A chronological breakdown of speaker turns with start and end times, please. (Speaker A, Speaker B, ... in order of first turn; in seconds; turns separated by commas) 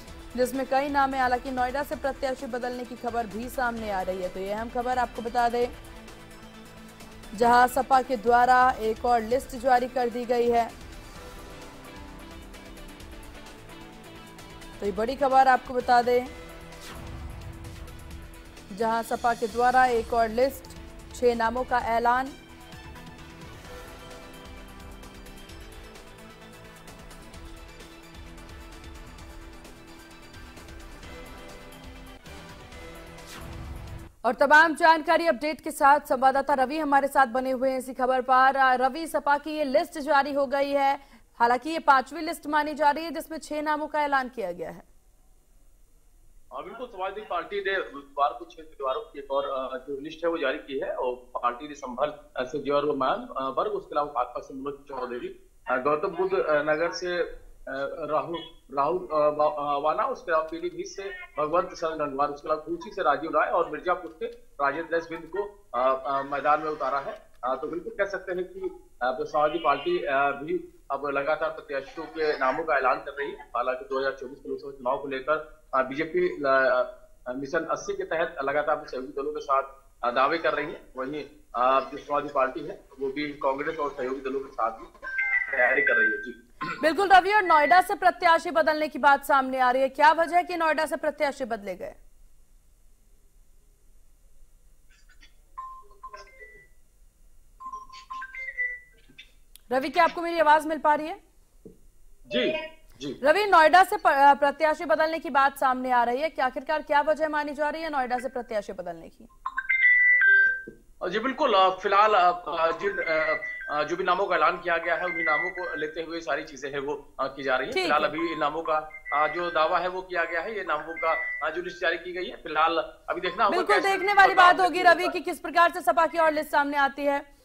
Speaker A: 0.3-5.7, Speaker A: 7.3-10.7, Speaker A: 14.8-16.3, Speaker A: 18.7-22.3, Speaker A: 34.2-44.9, Speaker B: 46.5-86.4, Speaker A: 86.8-92.0, Speaker A: 99.7-101.2, Speaker B: 102.3-103.2, Speaker A: 103.2-109.3, Speaker B: 111.0-125.2, Speaker A: 117.7-118.1, Speaker A: 123.5-127.2